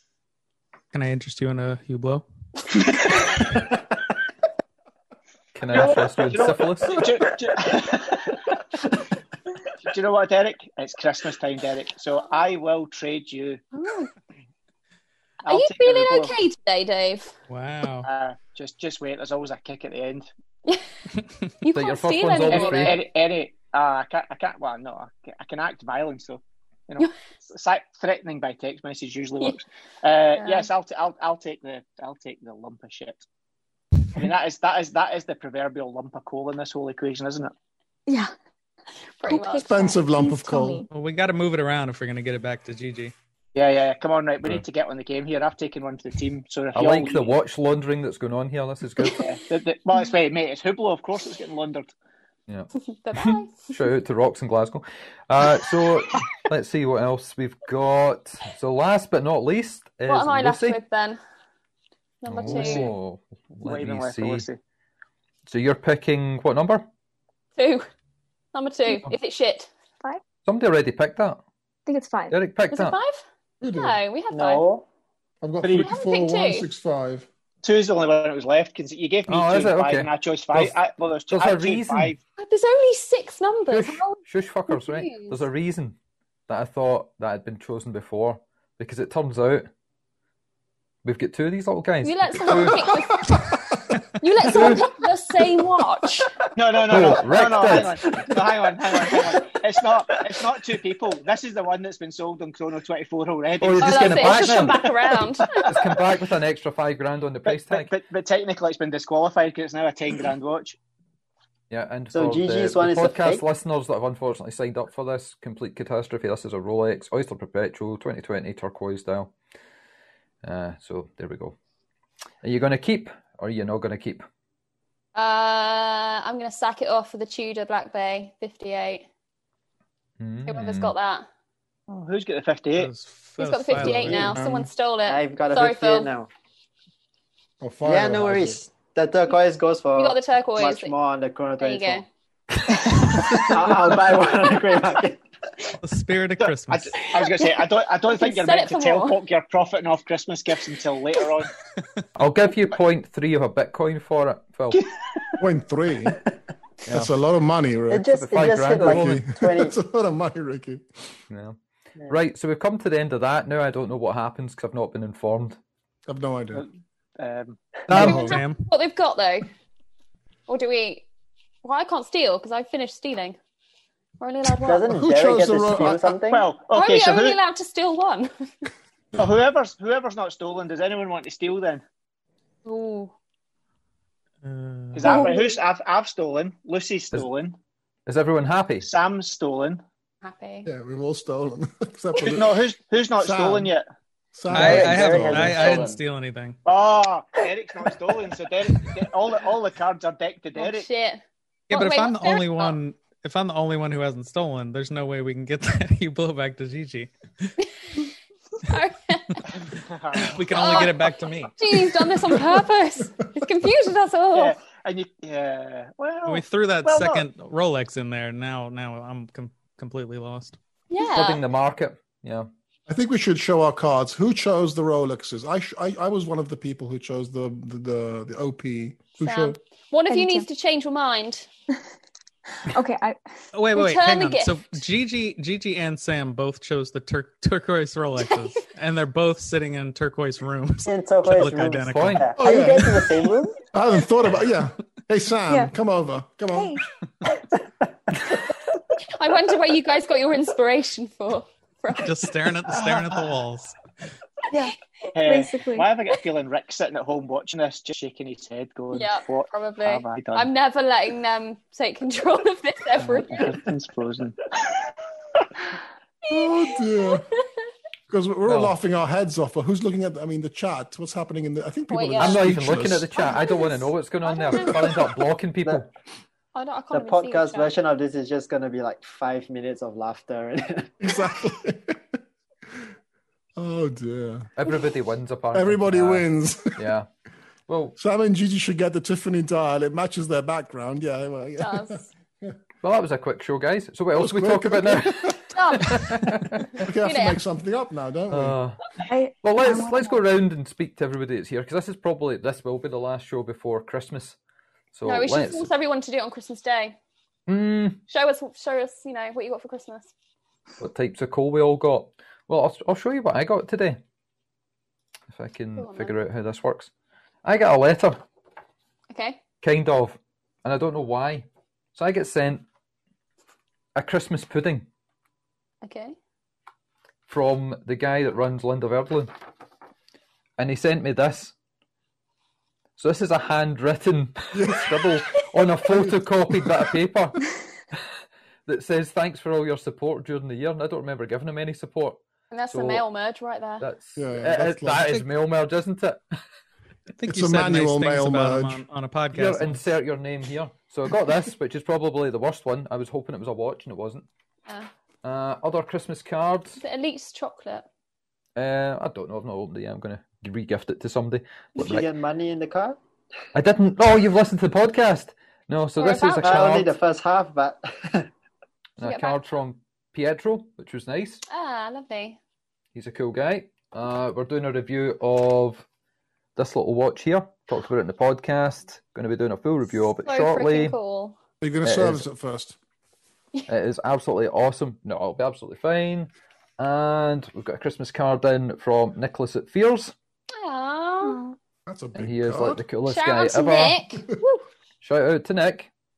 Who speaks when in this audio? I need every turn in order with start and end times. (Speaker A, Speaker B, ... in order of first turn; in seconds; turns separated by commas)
Speaker A: 0.9-2.3, Speaker B: 2.7-3.6, Speaker C: 5.5-7.1, Speaker B: 5.7-8.6, Speaker B: 9.8-13.6, Speaker D: 13.7-14.1, Speaker B: 15.4-16.4, Speaker D: 15.5-17.3, Speaker A: 17.5-18.1, Speaker B: 18.0-20.3, Speaker D: 21.6-23.0, Speaker C: 21.7-23.0, Speaker B: 22.5-33.2, Speaker D: 30.4-30.7, Speaker B: 34.1-37.5, Speaker E: 38.1-38.3, Speaker D: 39.2-40.0, Speaker E: 39.3-40.9, Speaker F: 39.6-40.9, Speaker A: 40.9-43.1, Speaker B: 43.5-47.3, Speaker C: 46.8-49.2, Speaker B: 49.1-51.9, Speaker C: 52.5-60.8, Speaker D: 52.9-53.7, Speaker D: 60.1-61.2, Speaker D: 62.2-62.9, Speaker C: 62.3-64.5, Speaker B: 63.6-64.6, Speaker C: 65.5-66.9, Speaker D: 67.6-67.9, Speaker D: 68.5-69.7, Speaker C: 70.5-71.4, Speaker E: 71.9-72.3, Speaker C: 72.3-73.0, Speaker D: 72.7-74.7, Speaker F: 73.6-74.0, Speaker G: 74.3-74.8, Speaker F: 75.4-77.3, Speaker B: 75.6-75.9, Speaker D: 75.7-76.7, Speaker B: 77.6-82.2, Speaker C: 79.3-80.8, Speaker C: 81.3-82.2, Speaker D: 82.4-85.4, Speaker C: 83.7-86.0, Speaker C: 86.5-89.7, Speaker C: 91.0-92.9, Speaker D: 92.0-93.7, Speaker F: 92.5-94.0, Speaker D: 94.2-96.3, Speaker C: 94.5-94.8, Speaker B: 96.6-104.9, Speaker C: 96.9-98.0, Speaker G: 98.3-99.5, Speaker C: 103.6-104.8, Speaker D: 103.8-105.7, Speaker C: 105.5-107.9, Speaker B: 107.5-110.8, Speaker C: 111.7-119.3, Speaker G: 112.1-113.4, Speaker C: 120.4-121.6, Speaker C: 122.4-124.3, Speaker D: 125.2-129.1, Speaker C: 130.2-130.9, Speaker D: 130.5-131.3, Speaker B: 131.9-132.9, Speaker A: 132.8-134.3, Speaker D: 133.4-136.1, Speaker F: 133.7-134.7, Speaker G: 135.1-136.3, Speaker F: 137.6-138.6, Speaker G: 137.8-142.1, Speaker D: 139.9-140.9, Speaker D: 141.6-142.1, Speaker G: 142.7-145.2, Speaker A: 145.8-147.0, Speaker B: 146.4-151.5, Speaker D: 147.2-149.2, Speaker C: 152.2-154.8, Speaker F: 155.4-156.2, Speaker F: 156.9-158.1, Speaker G: 157.9-159.8, Speaker C: 158.1-159.2, Speaker F: 158.7-160.9, Speaker C: 161.3-161.6, Speaker C: 162.1-165.6, Speaker F: 166.1-166.7, Speaker B: 166.5-167.9, Speaker F: 167.9-168.4, Speaker D: 167.9-169.5, Speaker A: 167.9-168.6, Speaker D: 170.5-171.1, Speaker D: 171.6-173.4, Speaker D: 174.2-174.9, Speaker G: 174.6-176.5, Speaker F: 174.9-176.2, Speaker B: 176.3-177.4, Speaker D: 176.7-178.7, Speaker B: 179.2-181.8, Speaker D: 182.7-183.1, Speaker A: 184.4-185.2, Speaker B: 184.9-187.6, Speaker D: 185.0-185.6, Speaker C: 188.1-188.9, Speaker B: 188.8-189.8, Speaker D: 190.2-190.7, Speaker F: 190.7-192.6, Speaker B: 192.2-193.8, Speaker F: 193.2-193.7, Speaker F: 194.3-195.8, Speaker A: 194.5-196.6, Speaker G: 194.5-196.0, Speaker B: 196.7-200.9, Speaker D: 200.6-202.8, Speaker A: 201.7-207.1, Speaker D: 208.7-209.4, Speaker B: 209.5-210.8, Speaker A: 210.2-212.0, Speaker D: 210.5-214.6, Speaker F: 212.2-212.5, Speaker B: 214.3-217.3, Speaker A: 216.3-220.6, Speaker D: 220.9-221.4, Speaker C: 221.1-222.5, Speaker F: 222.9-229.6, Speaker D: 229.2-231.5, Speaker E: 230.1-230.5, Speaker E: 232.7-233.2, Speaker A: 233.5-242.3, Speaker D: 233.7-234.7, Speaker G: 240.9-243.7, Speaker C: 241.9-242.3, Speaker F: 242.4-246.8, Speaker E: 245.5-245.8, Speaker E: 246.5-246.8, Speaker D: 249.2-252.2, Speaker A: 252.0-253.8, Speaker B: 252.7-253.4, Speaker B: 255.1-260.5, Speaker E: 255.2-255.9, Speaker D: 258.9-263.6, Speaker B: 263.0-264.5, Speaker D: 266.2-267.4, Speaker F: 266.3-267.2, Speaker F: 268.1-273.1, Speaker C: 268.5-268.8, Speaker D: 271.9-272.5, Speaker C: 272.2-275.9, Speaker D: 273.2-275.1, Speaker D: 276.6-277.8, Speaker G: 276.9-280.9, Speaker F: 281.0-282.0, Speaker F: 283.6-284.5, Speaker C: 284.6-287.1, Speaker F: 285.5-286.8, Speaker C: 287.7-288.0, Speaker F: 288.0-292.6, Speaker D: 291.6-292.1, Speaker C: 292.8-296.7, Speaker F: 294.1-295.4, Speaker D: 295.5-296.3, Speaker F: 296.8-298.6, Speaker D: 296.9-297.5, Speaker C: 298.3-298.8, Speaker E: 299.1-300.2, Speaker C: 299.4-304.4, Speaker C: 304.9-305.7, Speaker D: 305.1-307.0, Speaker C: 307.5-308.0, Speaker D: 308.1-310.1, Speaker C: 310.8-314.0, Speaker C: 315.3-316.9, Speaker D: 315.8-316.2, Speaker C: 317.4-318.2, Speaker D: 319.1-319.4, Speaker C: 319.6-322.6, Speaker C: 323.9-324.9, Speaker D: 325.8-326.2, Speaker C: 327.3-329.3, Speaker C: 330.6-331.5, Speaker C: 333.0-337.5, Speaker F: 334.5-335.3, Speaker F: 335.9-336.8, Speaker C: 338.7-342.2, Speaker D: 342.5-343.9, Speaker C: 342.7-343.0, Speaker C: 343.8-346.2, Speaker F: 344.2-345.3, Speaker A: 347.2-349.8, Speaker F: 347.3-348.8, Speaker C: 349.3-354.3, Speaker C: 355.2-356.8, Speaker D: 356.8-357.9, Speaker C: 358.6-362.1, Speaker G: 361.8-363.0, Speaker C: 363.5-366.9, Speaker D: 366.0-366.7, Speaker G: 366.4-368.3, Speaker C: 369.0-371.4, Speaker D: 369.0-369.4, Speaker D: 371.5-372.4, Speaker C: 372.9-375.8, Speaker C: 376.6-380.9, Speaker D: 380.2-381.4, Speaker F: 381.6-382.8, Speaker C: 381.8-382.2, Speaker C: 383.7-390.1, Speaker D: 390.6-391.6, Speaker F: 391.9-392.9, Speaker C: 392.1-394.0, Speaker D: 393.1-394.7, Speaker C: 395.0-395.9